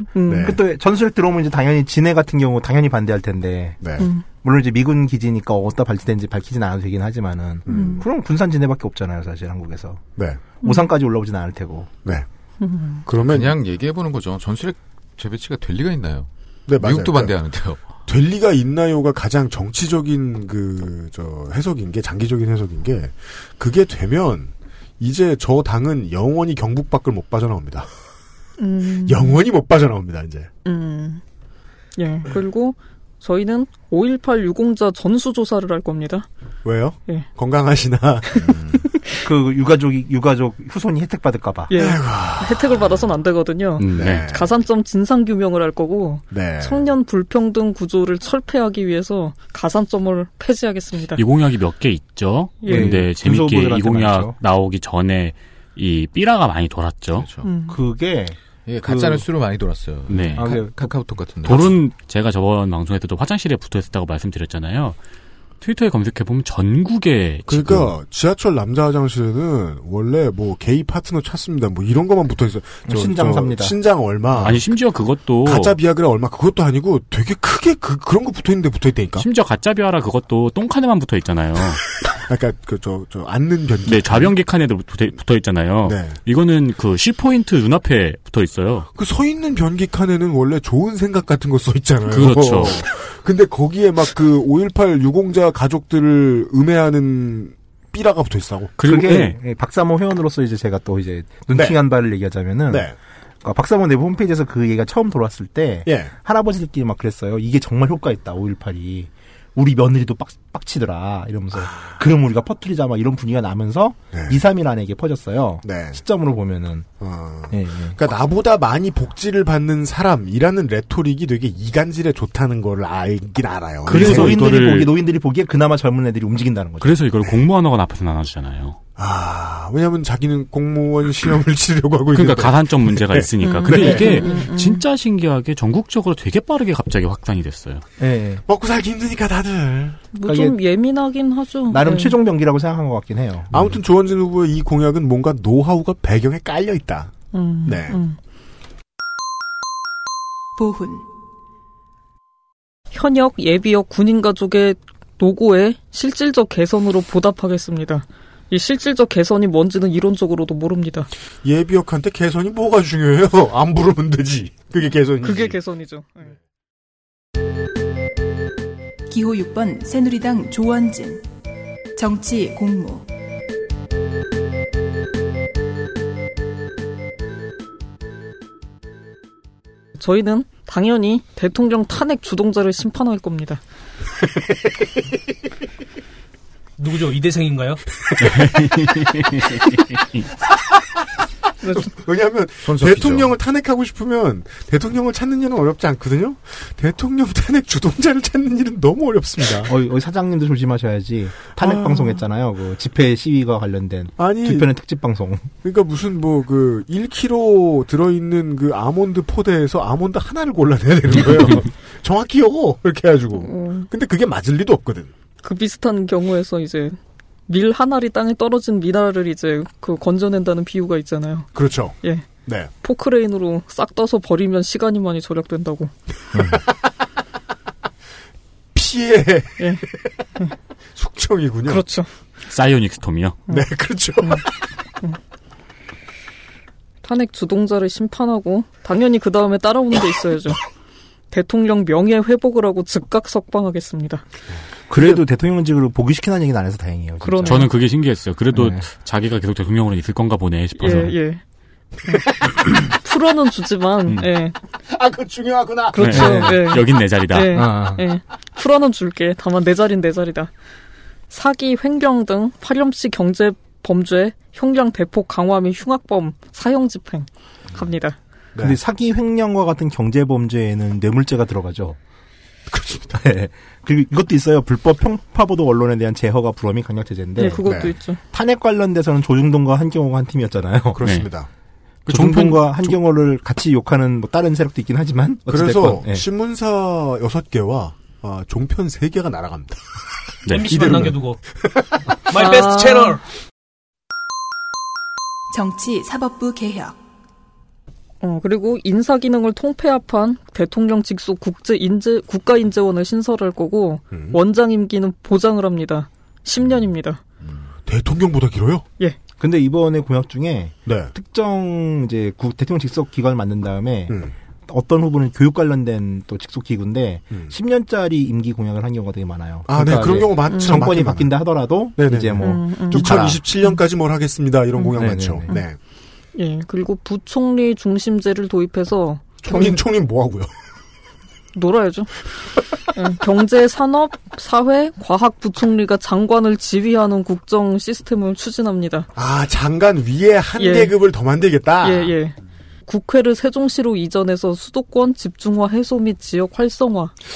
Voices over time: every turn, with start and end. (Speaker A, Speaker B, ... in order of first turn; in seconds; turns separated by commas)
Speaker A: 0.1-0.5, Speaker B: 0.3-0.6, Speaker C: 0.3-3.8, Speaker B: 3.8-4.1, Speaker A: 4.0-4.2, Speaker C: 4.4-10.0, Speaker B: 7.7-8.0, Speaker A: 7.7-8.0, Speaker B: 10.2-10.4, Speaker C: 10.6-11.9, Speaker A: 10.6-10.9, Speaker A: 12.6-13.0, Speaker B: 13.1-13.6, Speaker D: 13.2-17.8, Speaker B: 16.7-17.4, Speaker B: 18.1-27.9, Speaker A: 28.6-29.4, Speaker B: 29.0-30.5, Speaker A: 30.6-31.2, Speaker A: 32.0-36.3, Speaker B: 36.6-38.6, Speaker D: 38.4-38.8, Speaker C: 39.2-41.7, Speaker A: 41.7-51.2, Speaker B: 41.7-43.0, Speaker E: 43.8-44.3, Speaker B: 43.9-44.5, Speaker B: 46.3-46.8, Speaker E: 51.1-57.3, Speaker A: 52.6-52.9, Speaker C: 52.7-54.4, Speaker D: 57.1-57.5, Speaker A: 57.4-57.8, Speaker C: 57.7-59.3, Speaker D: 58.6-61.8, Speaker E: 60.1-60.5, Speaker C: 60.4-60.9, Speaker E: 61.4-65.0, Speaker E: 65.6-67.9, Speaker B: 67.5-74.7, Speaker C: 72.9-73.7, Speaker E: 74.4-75.8, Speaker B: 75.4-79.2, Speaker E: 79.2-81.8, Speaker B: 82.1-84.3, Speaker E: 83.9-88.9, Speaker B: 85.8-86.2, Speaker B: 88.9-98.7, Speaker E: 92.1-92.9, Speaker E: 98.8-99.4, Speaker C: 98.8-116.9, Speaker B: 101.5-101.8, Speaker B: 102.7-102.9, Speaker B: 105.8-106.1, Speaker B: 114.1-114.4, Speaker B: 115.6-116.0, Speaker B: 117.0-124.8, Speaker C: 117.5-118.0, Speaker C: 123.8-127.0, Speaker E: 123.8-124.9, Speaker E: 126.8-128.8, Speaker B: 129.0-133.3, Speaker E: 132.1-137.8, Speaker A: 133.4-134.8, Speaker C: 133.6-134.4, Speaker C: 138.0-138.4, Speaker B: 138.5-140.0, Speaker A: 140.1-142.2, Speaker C: 140.2-140.6, Speaker C: 141.7-143.7, Speaker B: 143.5-147.1, Speaker A: 147.3-148.2, Speaker B: 147.6-148.0, Speaker F: 150.6-151.1, Speaker A: 152.9-161.1, Speaker B: 161.4-165.6, Speaker A: 165.2-166.3, Speaker F: 169.1-171.2, Speaker F: 172.0-173.1, Speaker A: 180.0-183.6, Speaker B: 184.4-184.8, Speaker G: 186.8-187.8, Speaker E: 188.2-189.8, Speaker B: 191.8-199.7, Speaker D: 192.6-193.3, Speaker C: 199.6-205.5, Speaker B: 201.6-202.0, Speaker B: 204.2-204.7, Speaker B: 205.6-215.1, Speaker A: 213.3-213.9, Speaker A: 215.4-217.0, Speaker A: 217.5-221.5, Speaker B: 221.5-222.7, Speaker A: 222.8-225.9, Speaker D: 226.3-226.6, Speaker B: 226.4-226.7, Speaker B: 228.7-229.7, Speaker B: 230.9-231.8, Speaker A: 231.7-232.1, Speaker E: 232.5-233.4, Speaker B: 233.5-234.5, Speaker A: 237.0-240.6, Speaker A: 241.3-244.2, Speaker C: 244.9-247.8, Speaker A: 247.2-247.7, Speaker E: 247.4-251.1, Speaker C: 248.5-248.8, Speaker A: 250.8-251.4, Speaker A: 252.1-254.6, Speaker B: 254.9-256.1, Speaker A: 255.9-260.5, Speaker C: 256.0-256.8, Speaker E: 256.0-257.7, Speaker C: 257.5-258.0, Speaker A: 261.3-268.1, Speaker C: 268.6-272.0, Speaker B: 272.7-273.2, Speaker C: 273.1-277.7, Speaker A: 277.4-278.2, Speaker B: 277.6-277.9, Speaker C: 278.2-281.0, Speaker B: 280.9-281.5, Speaker E: 281.0-281.3, Speaker C: 282.1-286.2, Speaker E: 282.1-282.9, Speaker B: 285.5-289.8, Speaker E: 290.4-291.1, Speaker G: 290.5-291.4, Speaker B: 290.7-292.2, Speaker G: 292.2-293.2, Speaker A: 292.3-293.2, Speaker F: 295.5-297.0, Speaker A: 298.2-307.2, Speaker B: 304.1-304.4, Speaker D: 307.4-307.7, Speaker B: 307.9-308.8, Speaker C: 309.4-323.4, Speaker B: 310.9-311.1, Speaker B: 314.1-314.3, Speaker B: 319.7-321.4, Speaker A: 320.5-320.8, Speaker B: 321.9-325.8, Speaker A: 322.4-323.1, Speaker C: 324.9-325.5, Speaker A: 326.3-329.8, Speaker B: 329.4-330.5, Speaker A: 331.5-332.1, Speaker A: 332.9-339.1, Speaker B: 339.1-342.1, Speaker A: 340.6-340.9, Speaker A: 341.8-347.1